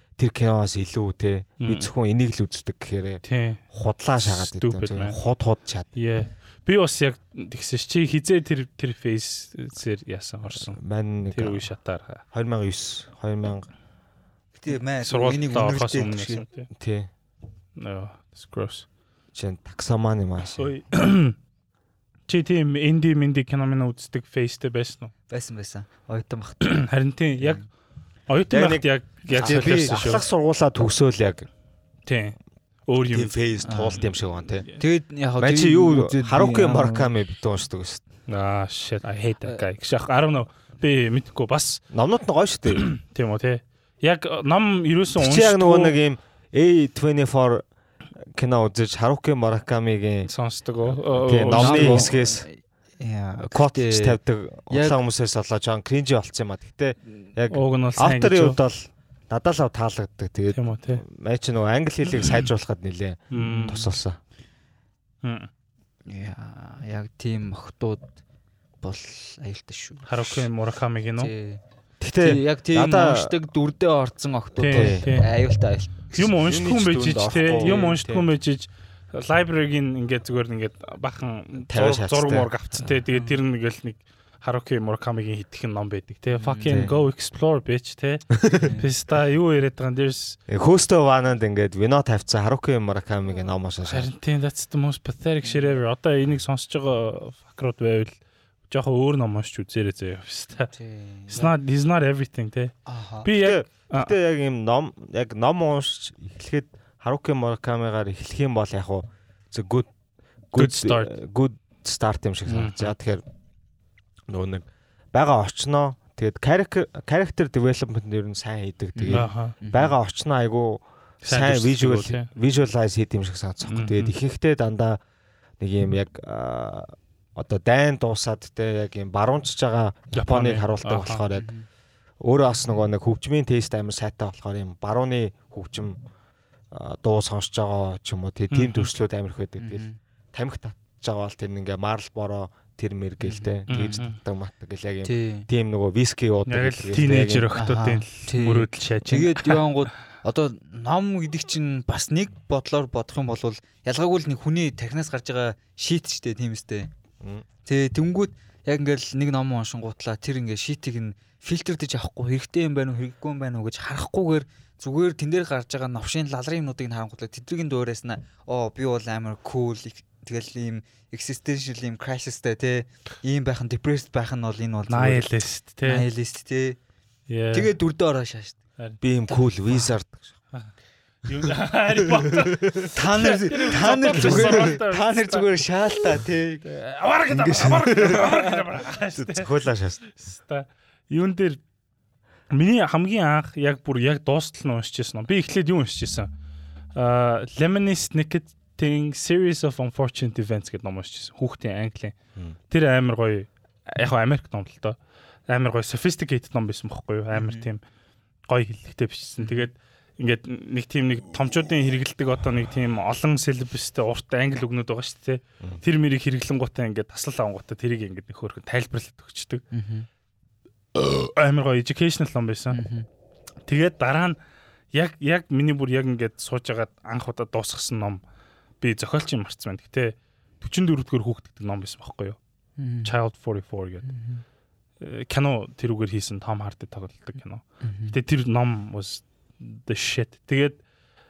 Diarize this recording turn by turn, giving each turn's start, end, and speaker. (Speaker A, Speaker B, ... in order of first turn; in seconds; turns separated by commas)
Speaker A: 0.2-3.2, Speaker B: 1.6-1.9, Speaker B: 3.2-3.6, Speaker A: 3.7-5.9, Speaker B: 4.2-5.2, Speaker B: 6.0-10.8, Speaker A: 10.6-11.7, Speaker B: 11.3-12.2, Speaker A: 12.3-13.7, Speaker C: 14.6-16.4, Speaker B: 15.0-16.7, Speaker A: 16.7-17.1, Speaker B: 17.8-18.9, Speaker A: 19.3-20.7, Speaker B: 20.6-21.4, Speaker B: 22.3-25.1, Speaker C: 25.3-26.9, Speaker B: 26.6-27.6, Speaker C: 27.4-27.7, Speaker B: 28.3-30.2, Speaker A: 28.5-31.5, Speaker C: 29.3-30.2, Speaker B: 32.1-32.4, Speaker B: 32.9-33.4, Speaker A: 33.1-34.7, Speaker C: 33.6-34.1, Speaker C: 34.7-37.1, Speaker A: 35.4-38.0, Speaker B: 38.3-41.8, Speaker A: 41.9-42.9, Speaker B: 42.7-46.0, Speaker A: 45.1-47.6, Speaker A: 48.3-50.3, Speaker B: 50.3-52.1, Speaker A: 50.9-52.5, Speaker C: 51.5-54.2, Speaker A: 53.5-64.2, Speaker C: 54.7-55.0, Speaker B: 57.5-58.6, Speaker B: 60.5-61.0, Speaker B: 63.3-63.8, Speaker C: 63.3-63.9, Speaker B: 65.2-65.5, Speaker C: 66.1-68.2, Speaker C: 68.8-70.5, Speaker B: 70.1-71.3, Speaker C: 71.2-71.6, Speaker A: 72.0-73.3, Speaker C: 72.2-76.3, Speaker B: 74.6-75.3, Speaker A: 74.7-75.1, Speaker B: 76.2-90.4, Speaker A: 76.4-78.2, Speaker C: 77.6-78.2, Speaker A: 81.7-82.5, Speaker C: 83.1-83.4, Speaker C: 86.4-86.9, Speaker A: 86.7-86.9, Speaker C: 88.5-88.9, Speaker A: 90.5-94.1, Speaker B: 93.8-98.2, Speaker C: 95.4-95.7, Speaker B: 98.7-100.7, Speaker C: 100.7-101.5, Speaker B: 101.3-102.7, Speaker C: 102.9-103.3, Speaker B: 103.2-104.1, Speaker A: 103.3-109.9, Speaker A: 110.5-113.2, Speaker B: 110.6-111.1, Speaker B: 112.5-112.9, Speaker A: 114.3-125.0, Speaker C: 119.0-120.0, Speaker B: 119.1-119.5, Speaker B: 121.2-122.3, Speaker B: 123.7-124.2, Speaker A: 125.6-131.5, Speaker B: 130.1-131.2, Speaker C: 131.3-131.7, Speaker A: 132.2-136.0, Speaker A: 136.7-147.5, Speaker B: 138.5-138.9, Speaker C: 139.6-140.0, Speaker C: 143.2-143.5, Speaker B: 143.7-144.2, Speaker C: 145.0-145.5, Speaker B: 146.5-149.7, Speaker C: 147.5-156.9, Speaker C: 157.7-175.3, Speaker B: 174.9-176.1, Speaker C: 175.8-176.8, Speaker B: 177.3-177.7, Speaker C: 177.5-178.6, Speaker A: 179.0-180.3, Speaker C: 179.3-179.9, Speaker B: 181.2-185.5, Speaker A: 182.3-182.6, Speaker C: 182.9-186.6, Speaker A: 184.1-184.8, Speaker B: 186.6-189.6, Speaker C: 187.3-188.6, Speaker A: 187.9-188.2, Speaker A: 189.2-190.0, Speaker B: 190.1-191.6, Speaker B: 192.5-196.3, Speaker B: 196.9-202.2, Speaker B: 202.7-205.0, Speaker B: 205.5-207.8, Speaker C: 207.3-207.7, Speaker B: 208.5-219.6, Speaker C: 209.4-209.7, Speaker C: 219.7-220.1, Speaker B: 220.9-222.8, Speaker C: 222.7-223.1, Speaker B: 223.7-224.4, Speaker B: 224.9-228.2, Speaker B: 228.8-232.4, Speaker C: 232.8-233.1, Speaker B: 233.0-234.1, Speaker C: 234.1-234.4, Speaker B: 235.0-240.8, Speaker C: 237.8-238.2